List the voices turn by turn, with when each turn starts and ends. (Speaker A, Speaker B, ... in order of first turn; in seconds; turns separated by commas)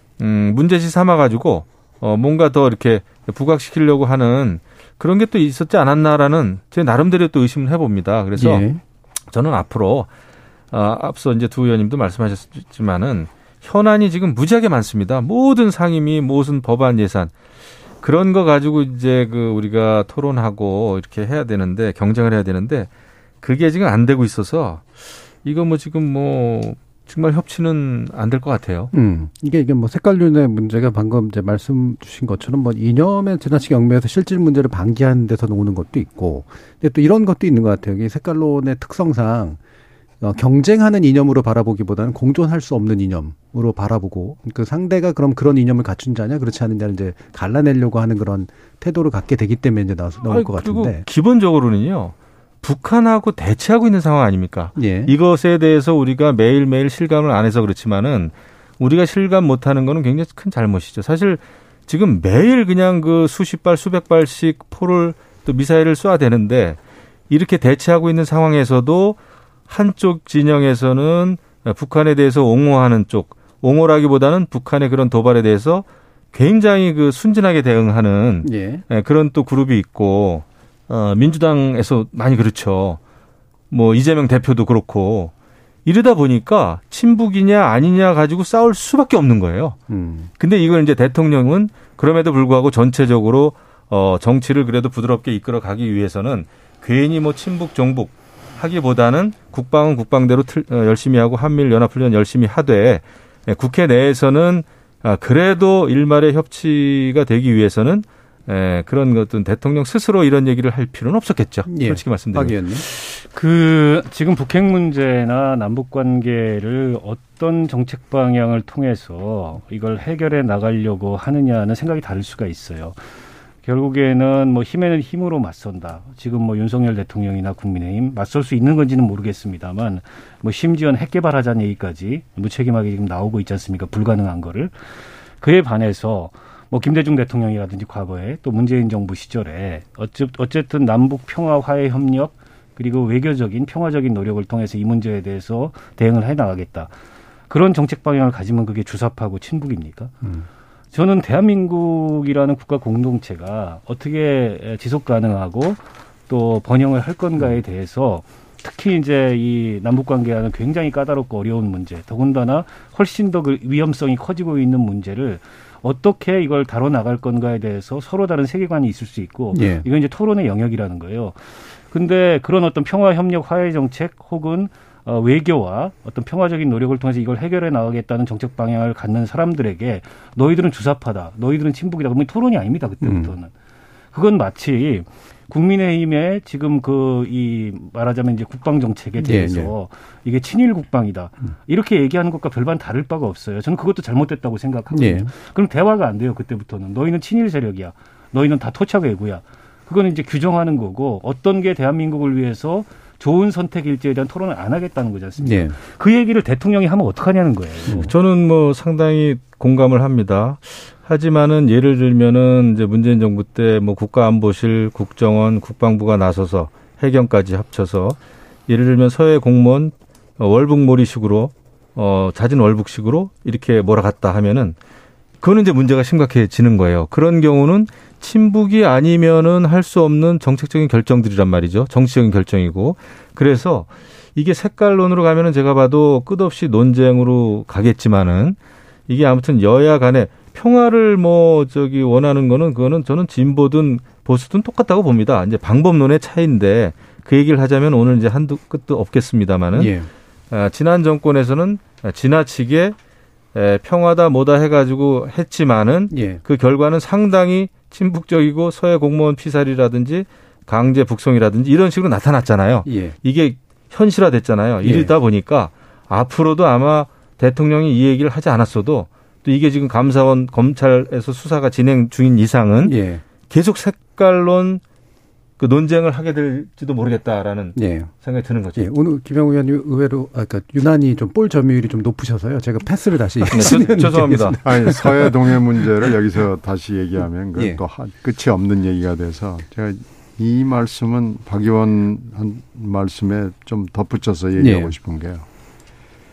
Speaker A: 0.2-8.7, Speaker B: 8.4-8.8, Speaker A: 9.3-10.1, Speaker A: 10.7-17.3, Speaker A: 18.0-22.9, Speaker A: 23.4-28.9, Speaker B: 28.9-39.6, Speaker B: 40.2-51.0, Speaker A: 50.3-66.8, Speaker B: 54.8-55.1, Speaker A: 67.3-69.2, Speaker A: 69.7-83.0, Speaker B: 78.4-78.8, Speaker A: 83.7-85.3, Speaker A: 85.8-89.8, Speaker B: 89.9-90.3, Speaker A: 90.4-112.6, Speaker B: 111.7-112.8, Speaker C: 113.0-123.0, Speaker C: 123.6-134.7, Speaker C: 135.4-146.9, Speaker C: 147.5-150.1, Speaker B: 150.2-150.5, Speaker C: 150.9-183.5, Speaker B: 169.5-169.8, Speaker B: 183.0-183.3, Speaker C: 184.1-208.1, Speaker B: 189.2-189.7, Speaker B: 194.9-195.3, Speaker B: 205.4-205.8, Speaker A: 207.9-224.8, Speaker A: 225.4-238.6, Speaker A: 239.1-249.9, Speaker B: 249.7-250.1, Speaker A: 250.5-252.9, Speaker A: 253.5-274.8, Speaker B: 256.1-256.4, Speaker B: 262.8-263.1, Speaker B: 264.8-265.1, Speaker B: 272.8-273.2, Speaker A: 275.6-278.9, Speaker B: 277.8-278.1, Speaker B: 278.7-285.8, Speaker A: 283.5-284.6, Speaker D: 284.6-295.4, Speaker B: 287.5-287.8, Speaker B: 294.6-294.9